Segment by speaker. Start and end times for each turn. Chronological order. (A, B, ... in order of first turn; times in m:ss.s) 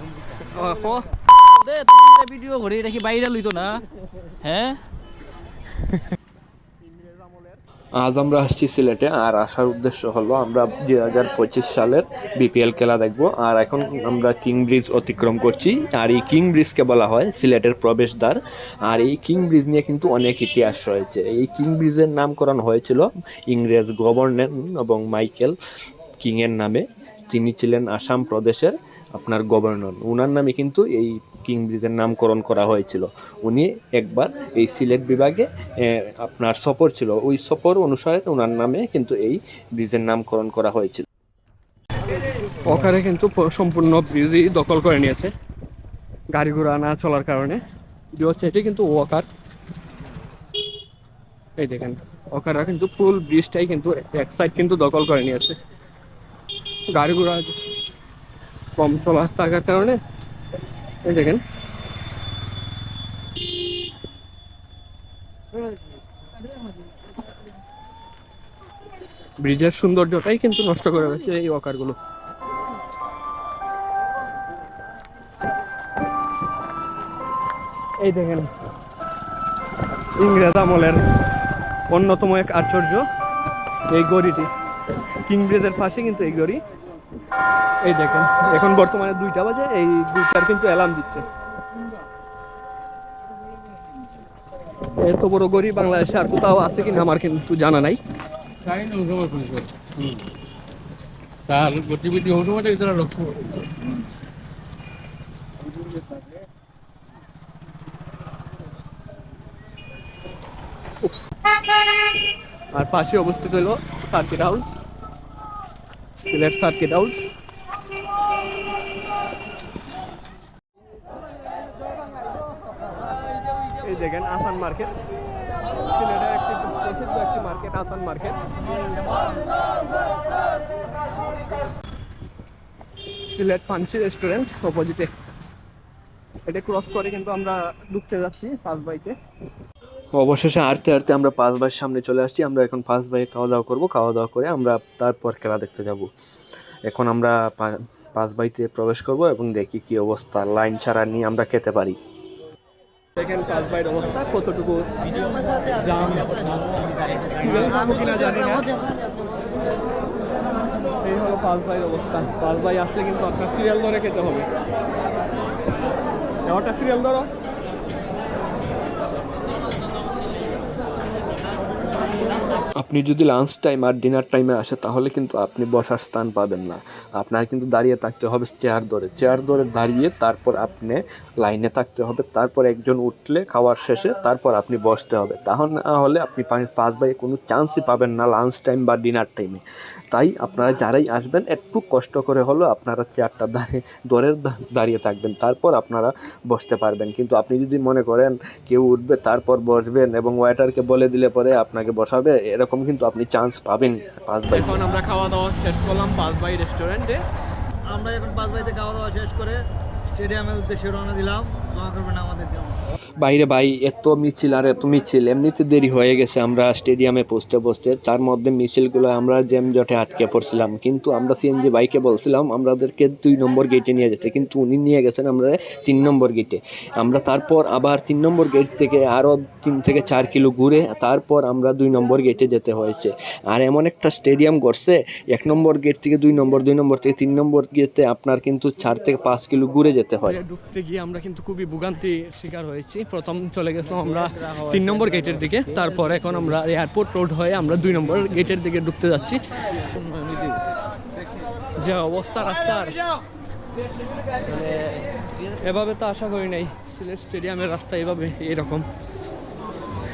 0:00.4-0:01.1 A
0:01.3-0:03.8 B
0:04.4-0:04.8 B
0:07.0-0:07.4 A
0:07.9-0:25.6 C
0:26.2-0:41.1 C
0:42.6-0:45.3 A
0:46.3-0:47.6 A
0:48.2-0:49.3 A
0:51.6-0:55.6 A
0:56.9-0:57.6 A
0:58.8-1:00.0 A
1:01.0-1:01.4 A
1:09.4-1:12.0 A
1:18.0-1:18.5 A
1:20.2-1:21.0 A
1:21.9-1:23.1 A
1:23.9-1:24.5 A
1:25.2-1:26.6 A
1:27.8-1:31.3 A
1:34.9-1:38.0 A
1:38.7-1:39.7 D
1:38.7-1:39.0 B
1:41.5-1:43.5 D
1:52.7-1:54.7 A
1:56.2-1:57.3 A
2:03.8-2:05.0 A
2:05.8-2:08.4 A
2:13.3-2:15.1 A
2:16.5-2:19.2 A
2:20.1-2:26.1 C
2:26.9-2:32.0 C
2:33.2-2:34.9 A
2:35.8-2:38.7 A
2:41.0-2:44.5 A
2:46.4-2:47.3 A
2:52.8-3:24.9 C
3:24.5-3:27.2 A
3:27.9-3:32.8 E
3:33.2-4:00.4 C
4:00.3-4:09.4 A
4:09.9-4:10.7 B
4:11.8-4:13.0 A
4:15.6-4:18.9 A